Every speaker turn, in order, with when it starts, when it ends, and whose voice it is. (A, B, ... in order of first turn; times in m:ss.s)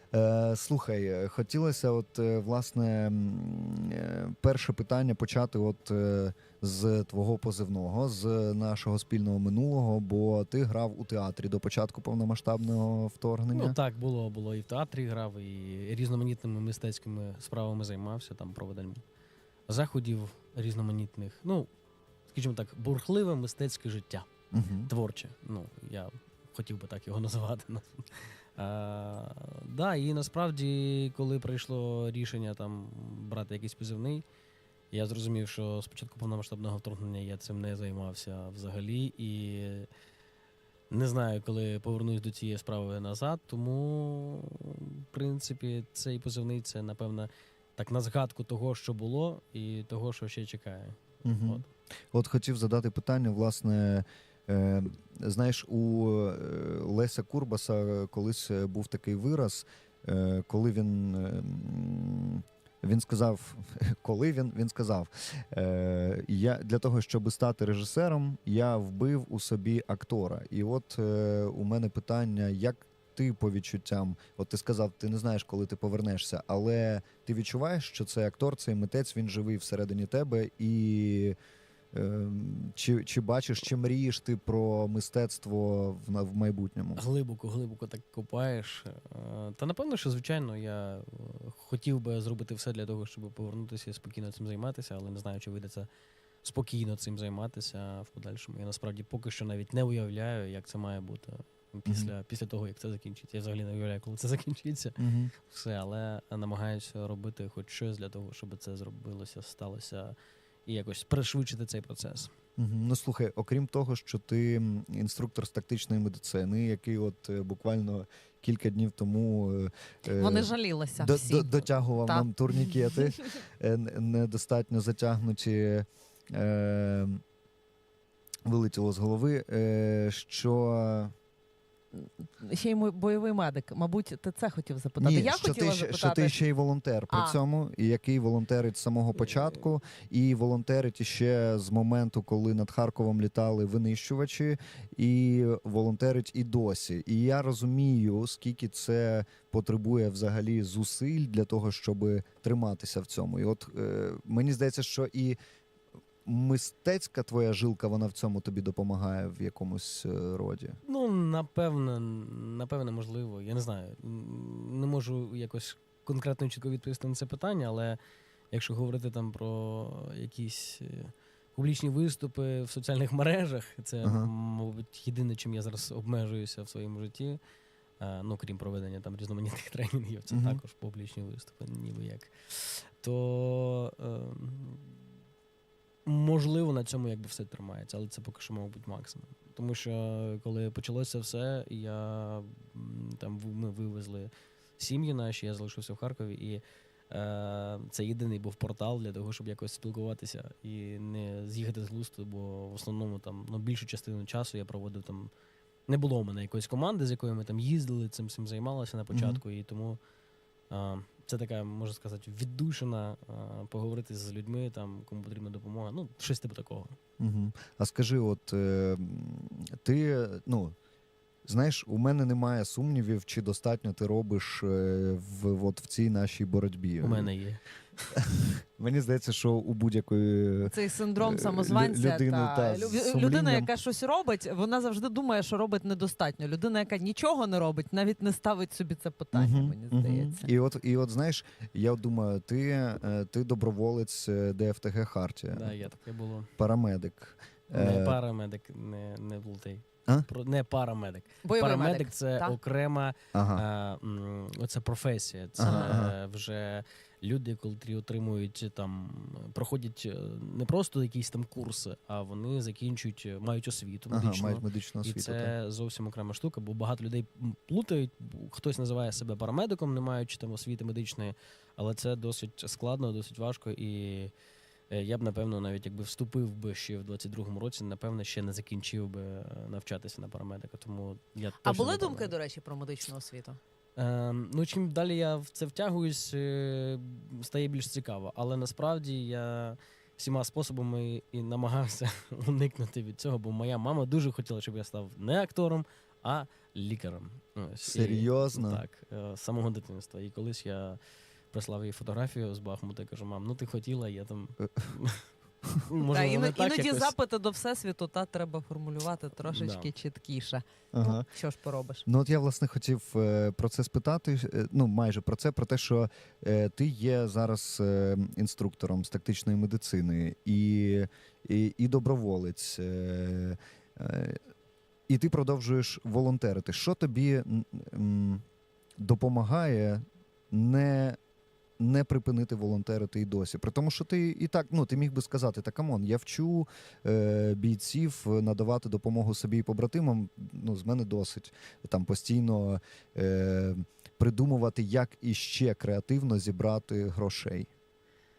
0:00.1-0:13.8 A
0:13.5-0:19.0 B
0:19.7-0:21.7 B
0:22.3-0:24.3 B
0:24.5-0:24.9 A
0:24.9-0:34.2 B
0:34.9-0:39.9 B
0:40.9-0:51.7 B
0:51.2-1:21.4 A
1:21.9-1:27.0 A
1:27.0-1:35.9 B
1:36.4-1:50.1 B
1:41.9-1:42.1 A
1:45.0-1:45.3 A
1:50.7-1:52.3 B
1:52.6-2:07.2 A
2:00.1-2:03.0 C
2:08.4-2:11.1 A
2:11.9-2:16.4 C
2:15.0-2:35.4 A
2:17.1-2:17.4 C
2:36.2-2:40.8 A
2:40.8-2:48.0 B
2:48.5-2:57.4 B
2:54.0-2:54.3 A
2:58.0-3:05.0 B
3:00.3-3:00.6 A
3:06.0-3:25.3 B
3:25.9-3:30.0 B
3:29.1-3:29.4 A
3:30.7-3:37.0 B
3:37.2-3:40.7 A
3:41.4-3:47.3 A
3:47.0-3:48.1 B
3:48.8-3:53.7 A
3:50.6-4:00.5 C
3:59.3-4:05.7 A
4:05.5-4:06.5 B
4:06.6-4:08.2 A
4:07.7-4:34.3 B
4:11.4-4:12.6 C
4:13.3-4:13.6 A
4:15.6-4:16.1 A
4:15.6-4:15.9 C
4:24.1-4:25.5 A
4:34.9-4:42.3 B
4:41.6-4:43.6 C
4:44.0-5:01.0 B
4:57.9-4:58.8 A
5:01.5-5:05.2 B
5:05.8-5:07.1 B
5:06.1-5:12.0 C
5:09.4-5:09.9 B
5:10.9-5:11.2 A
5:12.0-5:24.4 A
5:25.1-5:28.4 A
5:29.0-5:31.2 A
5:31.8-5:47.7 A